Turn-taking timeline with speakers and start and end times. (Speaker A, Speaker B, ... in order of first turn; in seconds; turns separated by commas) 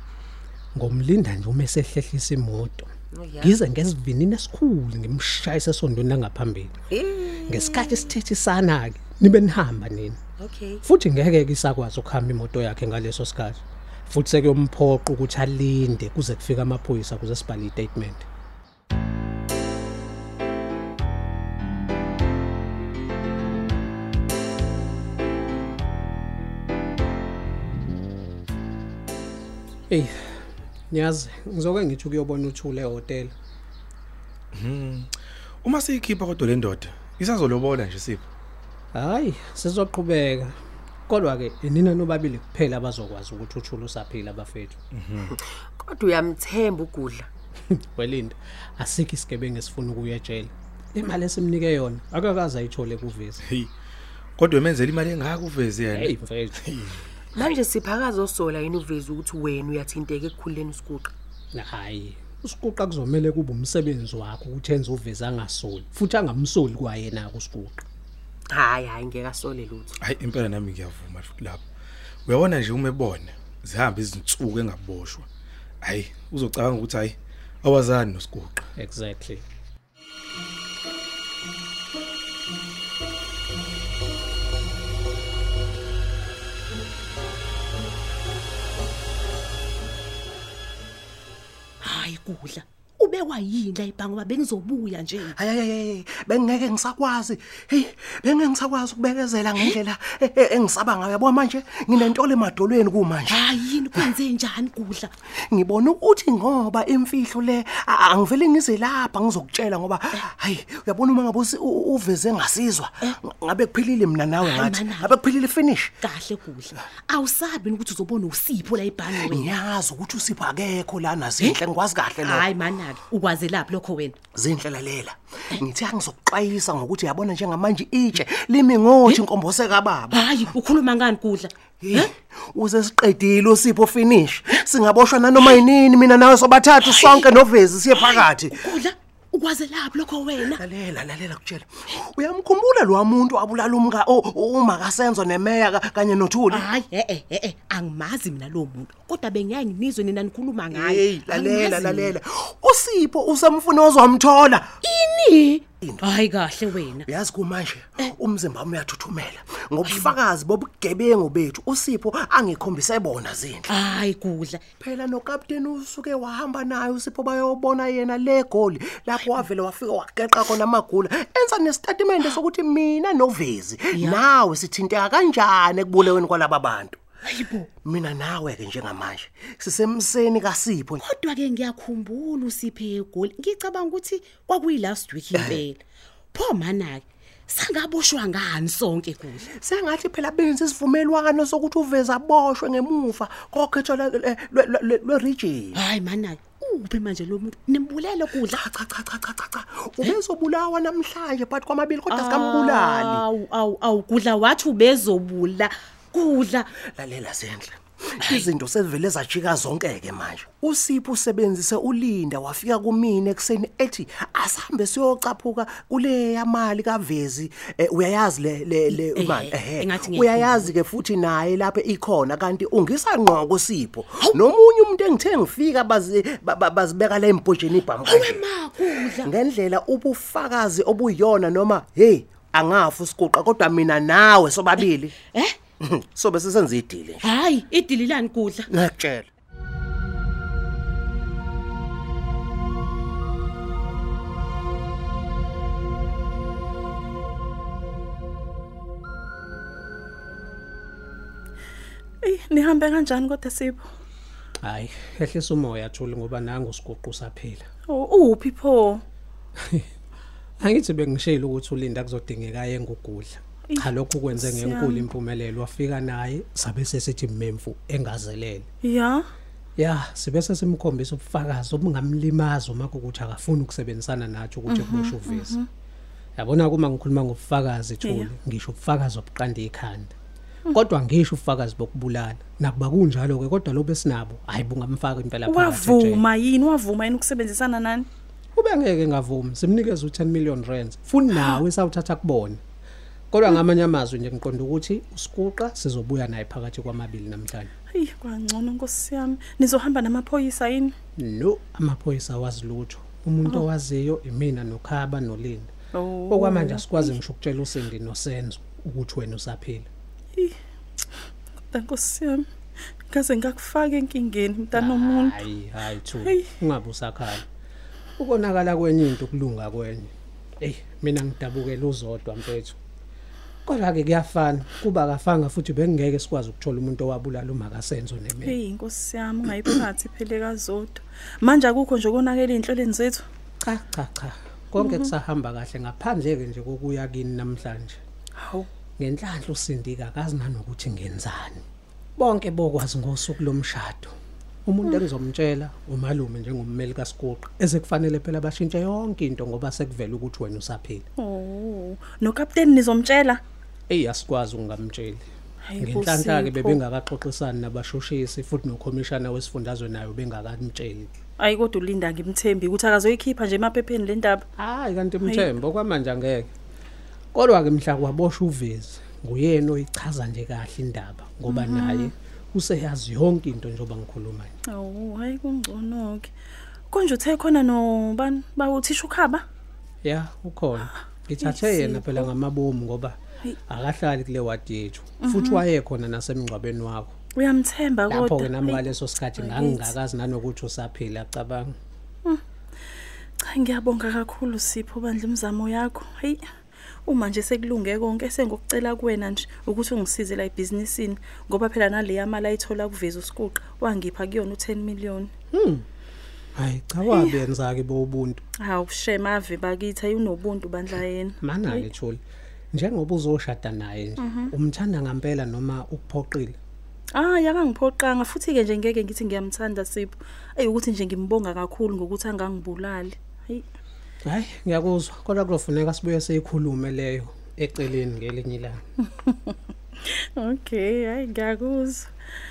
Speaker A: 0.7-2.9, Speaker B: 3.1-3.5, Speaker A: 3.4-6.7, Speaker B: 6.9-8.1, Speaker A: 7.5-10.2, Speaker B: 10.4-10.8, Speaker A: 10.8-18.2, Speaker A: 29.9-30.2, Speaker A: 30.9-33.3, Speaker C: 34.5-35.1, Speaker C: 35.6-38.3, Speaker A: 38.9-40.5, Speaker A: 41.1-44.8, Speaker C: 44.9-45.3, Speaker B: 45.8-47.3, Speaker A: 47.7-53.4, Speaker C: 54.4-57.0, Speaker A: 55.9-56.6, Speaker B: 57.3-61.1, Speaker A: 61.5-67.8, Speaker B: 68.5-69.9, Speaker C: 70.0-71.6, Speaker C: 72.2-75.3, Speaker C: 75.8-78.6, Speaker A: 78.8-79.4, Speaker D: 91.8-95.3, Speaker E: 95.3-104.1, Speaker D: 103.3-105.1, Speaker E: 105.5-116.0, Speaker D: 114.4-115.1, Speaker D: 116.0-119.5, Speaker E: 119.1-122.5, Speaker D: 122.2-124.2, Speaker E: 124.3-130.6, Speaker D: 130.1-132.1, Speaker E: 131.8-138.8, Speaker D: 136.8-137.4, Speaker D: 137.9-140.6, Speaker E: 140.4-146.7, Speaker D: 146.5-152.1, Speaker E: 150.7-154.8, Speaker D: 154.8-157.1, Speaker E: 155.8-156.2, Speaker E: 157.0-163.8, Speaker D: 159.8-160.1, Speaker D: 163.7-164.6, Speaker E: 164.8-177.0, Speaker D: 173.9-174.2, Speaker D: 177.2-177.7, Speaker E: 177.8-181.0, Speaker D: 181.0-185.8, Speaker E: 185.3-185.6, Speaker D: 186.3-189.4, Speaker E: 189.5-195.8, Speaker D: 195.7-198.6, Speaker E: 198.4-203.2, Speaker D: 202.1-206.7, Speaker E: 206.8-228.4, Speaker D: 218.9-220.7, Speaker D: 228.0-229.3, Speaker E: 229.0-235.2, Speaker D: 235.2-235.6, Speaker E: 235.8-237.3, Speaker D: 237.2-238.7, Speaker E: 238.7-239.3, Speaker F: 252.2-253.8, Speaker A: 254.6-257.6, Speaker F: 257.9-259.0, Speaker A: 260.6-268.7, Speaker F: 263.7-265.1, Speaker F: 268.8-269.2, Speaker A: 269.8-275.6, Speaker F: 274.7-275.6, Speaker A: 276.4-280.1, Speaker F: 278.0-278.3, Speaker A: 280.7-286.2, Speaker F: 285.4-288.1, Speaker A: 288.5-292.6, Speaker F: 291.3-291.6, Speaker A: 293.3-297.7, Speaker F: 297.9-300.9, Speaker A: 301.2-305.7, Speaker F: 305.9-307.1, Speaker A: 306.3-309.9, Speaker F: 311.7-312.4, Speaker F: 313.1-315.4, Speaker A: 314.7-317.4, Speaker F: 316.2-316.5, Speaker A: 318.2-322.8, Speaker A: 323.6-328.6, Speaker F: 328.4-333.2, Speaker A: 333.6-338.0, Speaker F: 334.8-335.0, Speaker F: 338.4-338.7, Speaker A: 339.0-341.6, Speaker A: 342.2-344.1, Speaker A: 344.6-351.1, Speaker F: 351.2-353.4, Speaker A: 353.9-355.3, Speaker F: 355.6-356.8, Speaker A: 355.8-361.1, Speaker F: 361.4-364.4, Speaker A: 364.6-366.5, Speaker F: 365.2-365.5, Speaker A: 367.3-374.5, Speaker F: 371.5-372.1, Speaker F: 374.7-376.3, Speaker F: 376.9-379.4, Speaker A: 380.0-387.1, Speaker F: 381.4-382.3, Speaker F: 385.2-385.6, Speaker F: 387.4-388.8, Speaker A: 388.1-391.7, Speaker F: 389.4-389.9, Speaker F: 393.4-396.4, Speaker F: 397.1-405.3, Speaker A: 405.5-405.8, Speaker A: 406.6-408.4, Speaker F: 407.1-407.3, Speaker F: 408.6-411.9, Speaker A: 411.4-412.2, Speaker A: 412.7-416.6, Speaker F: 414.2-414.5, Speaker F: 417.1-423.6, Speaker A: 424.2-428.8, Speaker F: 429.2-432.1